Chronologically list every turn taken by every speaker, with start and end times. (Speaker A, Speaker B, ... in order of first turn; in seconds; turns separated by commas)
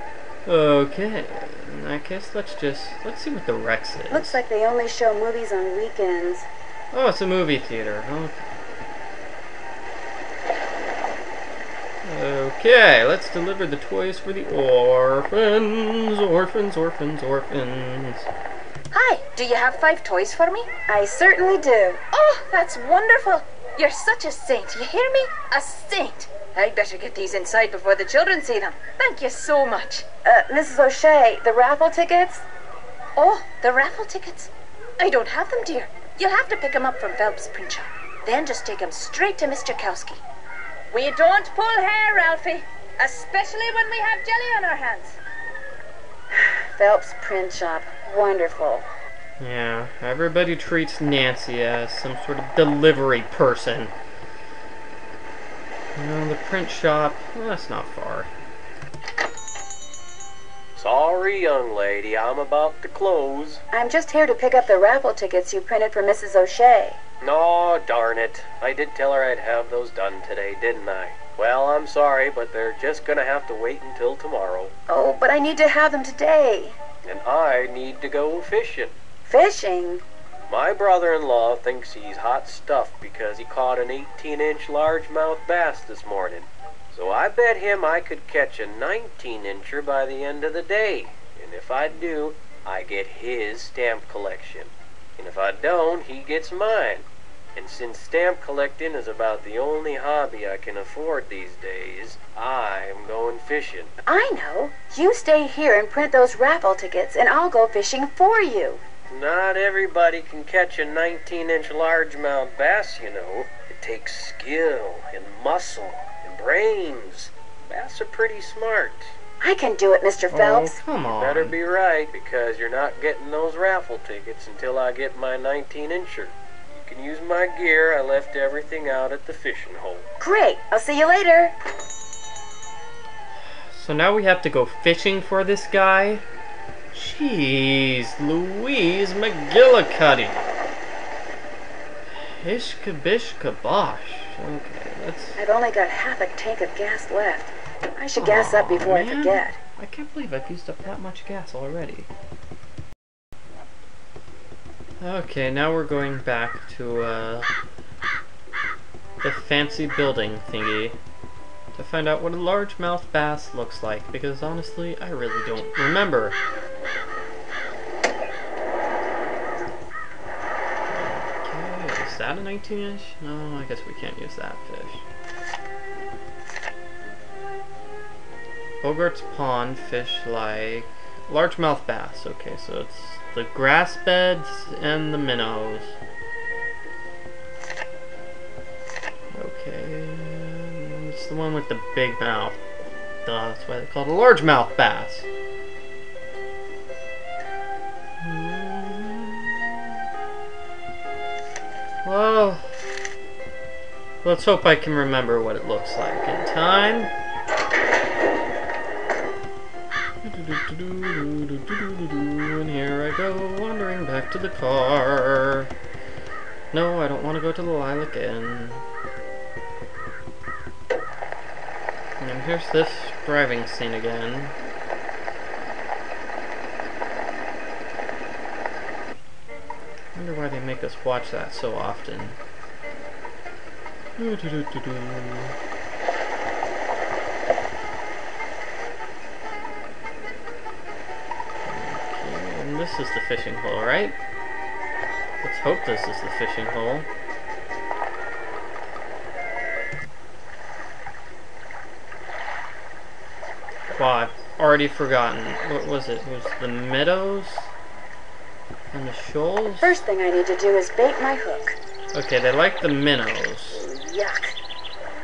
Speaker A: 0.5-4.4, Speaker B: 4.1-6.5, Speaker A: 6.9-8.6, Speaker A: 12.0-18.3, Speaker C: 18.9-20.7, Speaker B: 20.9-22.0, Speaker C: 22.1-30.0, Speaker B: 30.2-32.4, Speaker C: 33.2-40.2, Speaker C: 40.9-45.2, Speaker B: 46.4-48.9, Speaker A: 49.4-53.9, Speaker A: 56.0-58.3, Speaker D: 60.8-63.6, Speaker B: 63.7-67.0, Speaker D: 67.2-74.7, Speaker B: 74.9-76.8, Speaker D: 77.0-78.9, Speaker B: 79.2-80.0, Speaker D: 80.5-103.9, Speaker B: 104.0-108.8, Speaker D: 109.1-119.1, Speaker B: 119.4-120.8, Speaker A: 120.3-121.6, Speaker D: 121.1-130.1, Speaker B: 130.2-131.5, Speaker A: 133.4-136.2, Speaker A: 136.9-140.4, Speaker A: 142.1-145.4, Speaker B: 145.4-149.6, Speaker A: 148.2-152.1, Speaker A: 155.0-157.5, Speaker A: 159.2-161.0, Speaker A: 161.7-166.4, Speaker A: 170.9-175.0, Speaker A: 178.8-186.0, Speaker A: 189.3-192.6, Speaker A: 193.2-195.3, Speaker A: 198.2-199.7, Speaker A: 202.0-202.7, Speaker A: 204.2-207.1, Speaker A: 210.2-215.7, Speaker A: 216.7-218.8, Speaker A: 222.2-224.5, Speaker A: 230.1-232.4, Speaker A: 234.2-235.5, Speaker A: 241.6-244.2, Speaker A: 245.4-247.1, Speaker A: 253.9-257.7, Speaker A: 258.9-260.0, Speaker B: 259.8-261.8, Speaker A: 262.1-263.8, Speaker B: 263.9-264.4